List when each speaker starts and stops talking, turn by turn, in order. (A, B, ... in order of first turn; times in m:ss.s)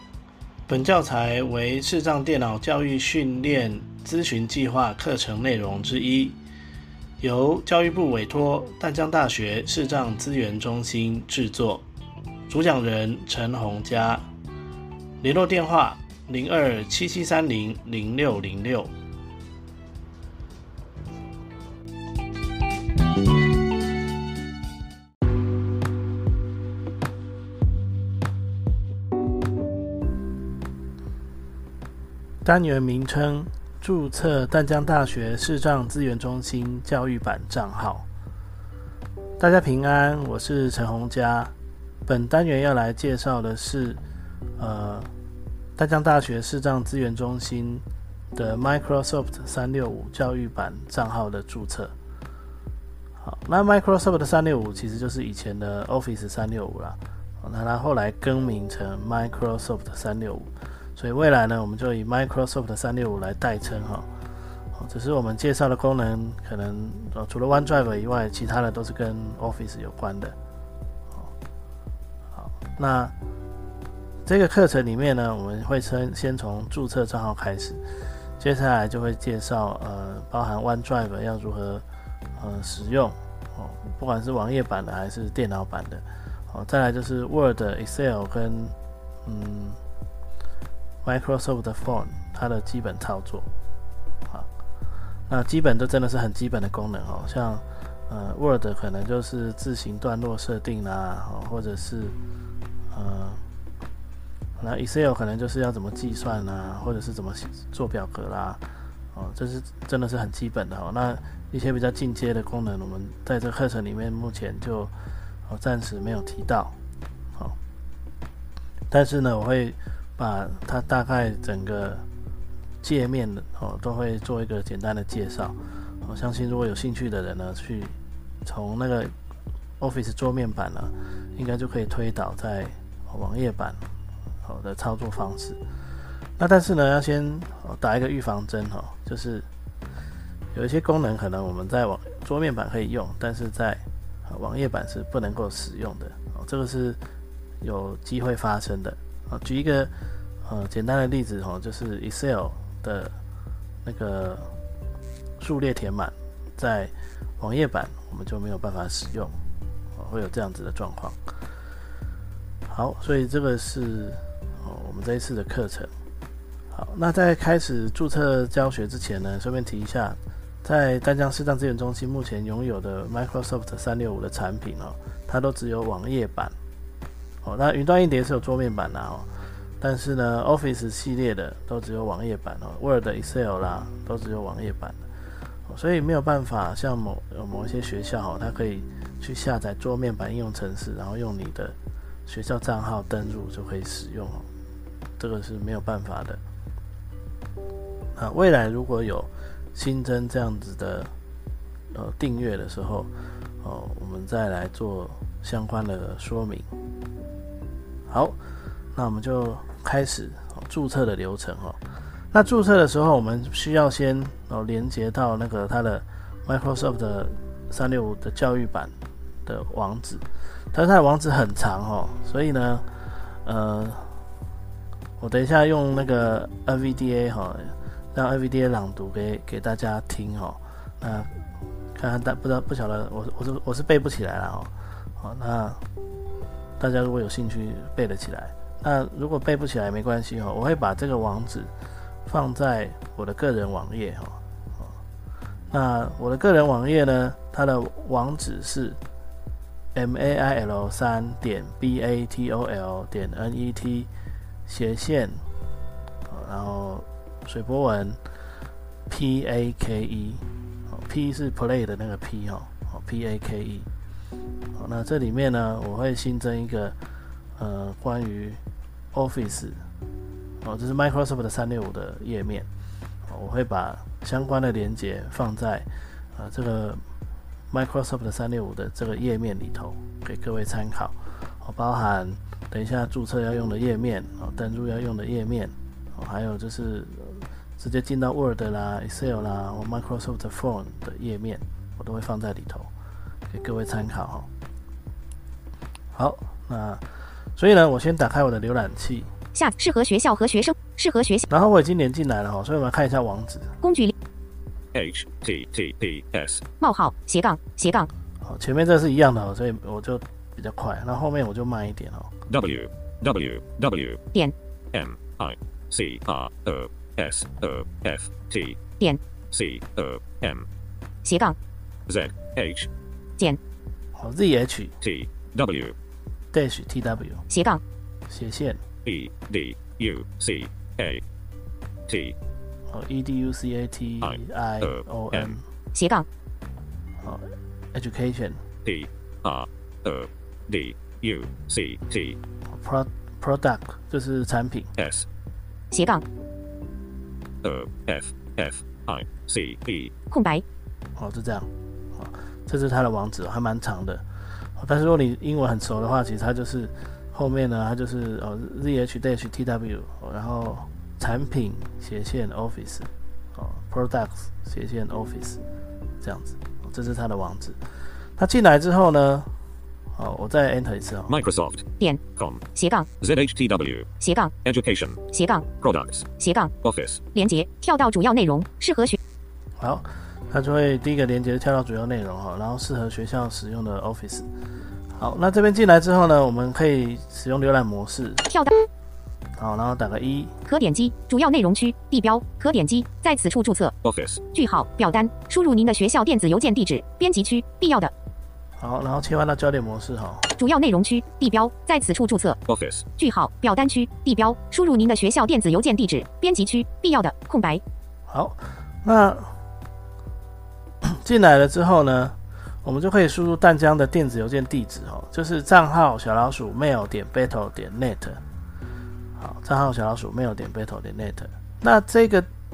0:00.7-0:06.4 A
0:07.2-0:11.8 A
0:12.5-0:14.2 A
0:15.2-0:18.9 A
0:32.4-0:38.1 A
0:39.4-0:41.5 A
0:42.0-0:44.0 A
0:44.6-0:45.1 A
0:45.8-0:51.9 A
0:53.2-1:04.1 A
1:04.7-1:10.4 A
1:12.3-1:13.1 A
1:14.2-1:17.8 A
1:18.4-1:21.8 A
1:22.4-1:29.8 A
1:31.0-1:33.5 A
1:35.3-1:42.2 A
1:42.9-1:43.4 A
1:44.6-1:54.9 A
1:55.5-1:56.8 A
1:58.9-2:02.0 A
2:02.8-2:09.1 A
2:09.8-2:13.8 A
2:14.4-2:15.6 A
2:16.4-2:19.5 A
2:20.5-2:27.0 A
2:27.6-2:29.9 A
2:30.4-2:33.2 A
2:33.8-2:34.5 A
2:35.4-2:39.4 A
2:39.9-2:41.2 A
2:42.7-2:45.9 A
2:46.7-2:56.5 A
2:57.4-2:59.3 A
2:59.8-3:05.0 A
3:05.7-3:14.5 A
3:15.2-3:16.4 A
3:18.2-3:21.1 A
3:21.9-3:26.7 A
3:28.1-3:28.4 A
3:28.9-3:31.8 A
3:32.3-3:38.9 A
3:39.4-3:44.2 A
3:45.2-3:55.8 A
3:56.8-4:01.7 A
4:02.2-4:05.0 A
4:05.7-4:09.0 A
4:09.9-4:14.1 A
4:14.6-4:15.4 A
4:16.3-4:18.2 A
4:19.1-4:23.9 A
4:24.7-4:27.0 A
4:27.6-4:28.6 A
4:29.1-4:29.8 A
4:30.6-4:32.7 A
4:33.3-4:37.0 A
4:37.7-4:52.9 A
4:53.5-4:54.5 A
4:56.1-4:57.0 A
4:57.6-4:59.3 A
4:59.5-5:01.5 B
5:01.5-5:03.8 A
5:03.8-5:04.1 B
5:04.9-5:06.6 C
5:06.8-5:08.1 B
5:08.4-5:12.3 A
5:12.5-5:14.2 C
5:14.9-5:18.8 C
5:19.5-5:20.6 C
5:21.2-5:21.6 B
5:22.1-5:22.9 C
5:24.1-5:25.0 A
5:25.0-5:25.9 C
5:26.5-5:27.4 A
5:27.5-5:27.8 B
5:28.3-5:28.8 A
5:29.0-5:31.2 C
5:32.1-5:32.4 C
5:32.9-5:35.6 A
5:34.2-5:35.5 C
5:35.9-5:36.3 B
5:37.2-5:38.6 A
5:38.8-5:42.4 C
5:42.7-5:44.9 A
5:45.0-5:45.2 C
5:45.9-5:46.2 B
5:47.6-5:50.1 C
5:50.3-5:50.6 B
5:51.2-5:54.2 A
5:54.8-6:05.6 A
6:06.2-6:07.8 A
6:08.4-6:09.5 A
6:10.1-6:11.4 A
6:11.3-6:11.8 C
6:12.4-6:12.6 C
6:12.7-6:13.1 B
6:13.2-6:14.1 C
6:14.2-6:14.5 B
6:14.6-6:15.2 C
6:15.3-6:15.7 B
6:15.8-6:16.3 C
6:16.4-6:16.7 B
6:16.8-6:17.2 C
6:17.3-6:19.2 B
6:19.8-6:24.5 A
6:25.1-6:28.4 A
6:28.5-6:28.7 B
6:29.6-6:30.5 A
6:30.6-6:33.9 B
6:34.0-6:34.4 C
6:34.5-6:38.1 B
6:38.8-6:40.5 A
6:40.5-6:42.6 B
6:42.7-6:43.0 C
6:43.2-6:47.8 B
6:48.3-6:49.6 A
6:51.0-6:58.4 A
6:59.4-7:02.5 A